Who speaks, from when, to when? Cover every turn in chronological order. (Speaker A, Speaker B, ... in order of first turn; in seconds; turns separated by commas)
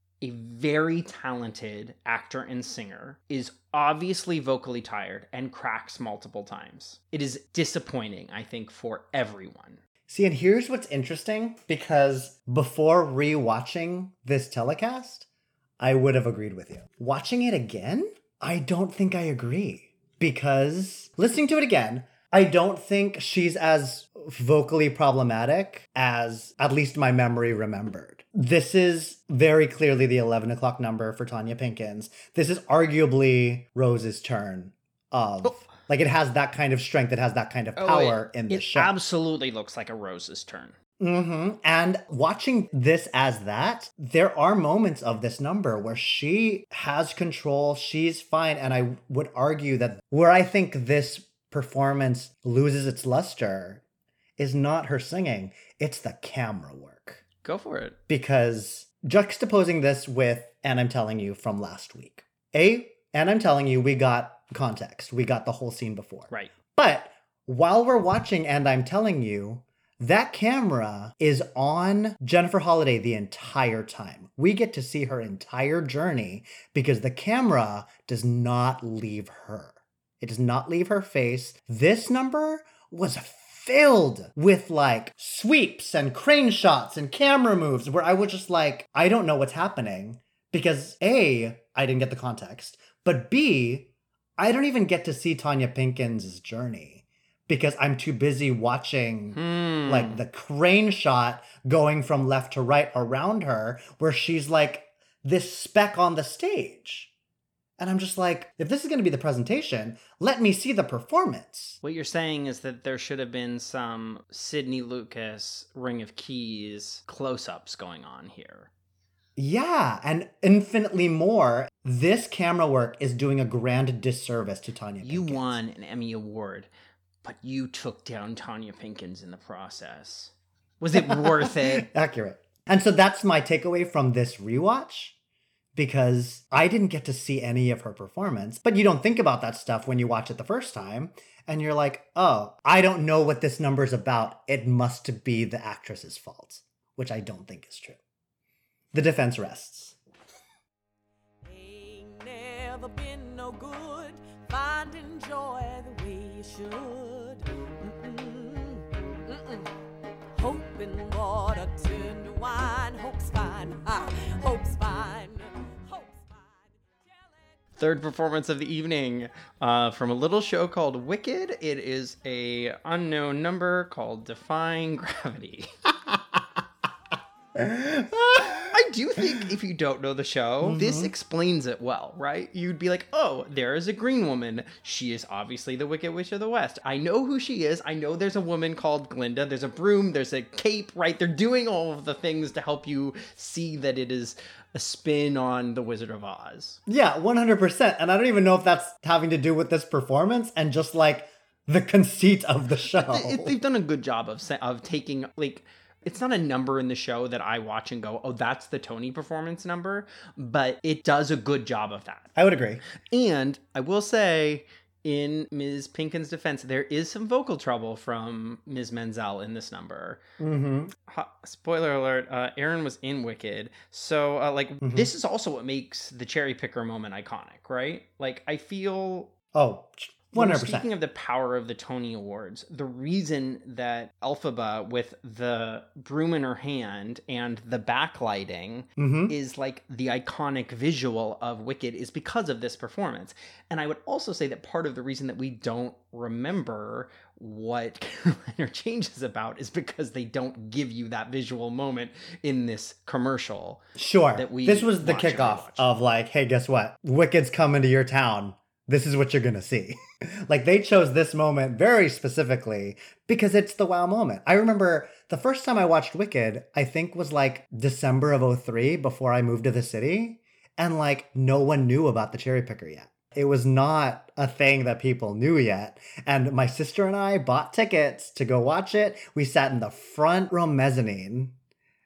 Speaker A: 0.2-9.8, Speaker B: 10.1-15.3, Speaker B: 15.8-38.9, Speaker A: 37.8-40.7, Speaker B: 41.0-53.8, Speaker B: 54.4-57.2, Speaker A: 57.4-58.0, Speaker B: 58.1-107.1, Speaker A: 99.3-100.2, Speaker B: 107.8-111.8, Speaker A: 111.8-118.7, Speaker B: 119.4-125.5, Speaker A: 125.0-126.7, Speaker A: 127.2-131.9, Speaker B: 130.9-135.2, Speaker B: 135.7-148.0, Speaker B: 148.9-150.0, Speaker C: 151.4-159.7, Speaker C: 160.3-166.7, Speaker A: 167.8-175.7, Speaker B: 177.5-179.4, Speaker A: 178.7-196.8, Speaker B: 180.6-181.1, Speaker B: 196.9-203.6, Speaker A: 202.9-212.3, Speaker B: 212.3-212.8, Speaker A: 213.0-220.2, Speaker B: 220.4-220.9, Speaker A: 221.1-229.3, Speaker B: 224.8-225.1, Speaker B: 229.5-230.9, Speaker A: 230.3-253.8, Speaker B: 239.0-239.3, Speaker B: 253.9-281.5, Speaker A: 254.3-255.9